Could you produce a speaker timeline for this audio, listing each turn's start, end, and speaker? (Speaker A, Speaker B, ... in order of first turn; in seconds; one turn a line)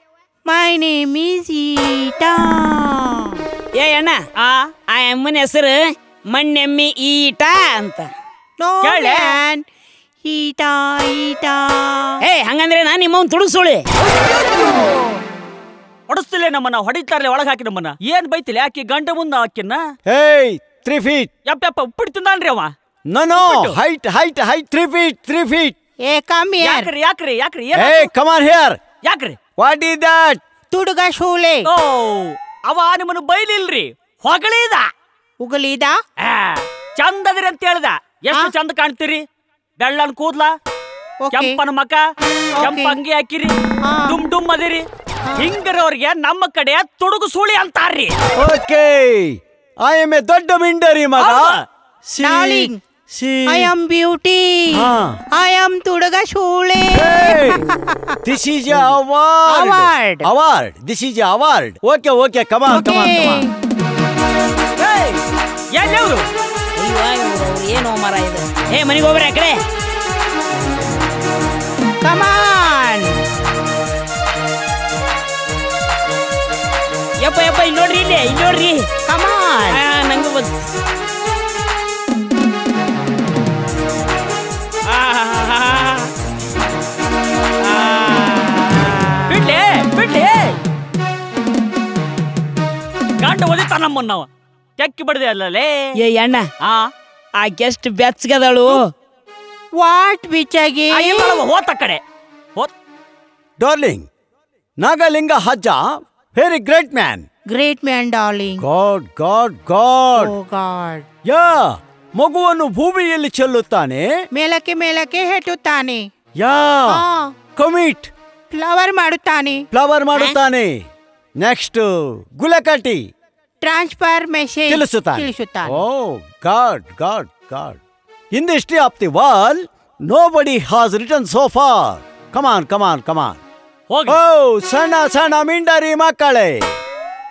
Speaker A: 0.5-3.4
Speaker B: 3.7-4.2
Speaker C: 4.4-4.7
Speaker B: 4.9-8.1
Speaker A: 8.6-9.6
Speaker C: 8.8-9.4
Speaker A: 10.2-12.2
Speaker B: 12.2-13.8
Speaker A: 14.3-15.2
Speaker C: 16.1-19.8
Speaker D: 20.1-21.3
Speaker C: 21.5-22.7
Speaker D: 23.1-25.8
Speaker C: 23.4-23.8
Speaker A: 26.1-26.9
Speaker C: 26.6-28.1
Speaker D: 27.7-28.8
Speaker C: 29.0-29.4
Speaker D: 29.6-30.4
Speaker A: 30.7-31.7
Speaker C: 31.6-34.9
Speaker A: 35.4-36.0
Speaker C: 36.2-39.2
Speaker C: 39.8-40.5
Speaker A: 41.2-41.6
Speaker C: 41.3-42.0
Speaker A: 42.6-43.0
Speaker C: 42.6-43.5
Speaker A: 43.9-44.2
Speaker C: 44.0-44.9
Speaker C: 45.4-48.1
Speaker D: 48.4-51.5
Speaker C: 51.2-51.6
Speaker A: 52.2-52.8
Speaker D: 52.2-53.7
Speaker A: 53.5-58.2
Speaker D: 54.7-55.2
Speaker D: 56.9-57.6
Speaker D: 58.2-63.4
Speaker A: 59.5-60.3
Speaker A: 62.7-63.5
Speaker C: 64.8-65.2
Speaker C: 65.7-66.2
Speaker B: 66.8-69.6
Speaker A: 72.0-73.2
Speaker B: 77.2-78.9
Speaker A: 79.1-79.8
Speaker B: 79.7-80.6
Speaker C: 84.9-86.1
Speaker B: 87.6-89.2
Speaker C: 89.3-90.6
Speaker C: 93.2-95.9
Speaker B: 96.0-96.5
Speaker C: 96.6-96.9
Speaker B: 97.4-98.8
Speaker A: 99.8-101.4
Speaker C: 100.9-102.0
Speaker D: 103.6-104.1
Speaker D: 104.8-107.2
Speaker A: 107.5-108.6
Speaker D: 108.6-110.3
Speaker A: 110.2-111.1
Speaker D: 111.2-114.1
Speaker A: 114.3-116.1
Speaker D: 116.4-117.0
Speaker A: 116.9-117.3
Speaker D: 117.6-118.1
Speaker A: 118.5-119.6
Speaker D: 119.7-120.8
Speaker D: 121.4-123.0
Speaker A: 123.6-125.8
Speaker D: 124.7-127.8
Speaker D: 128.3-133.4
Speaker C: 133.9-134.2
Speaker D: 134.1-136.7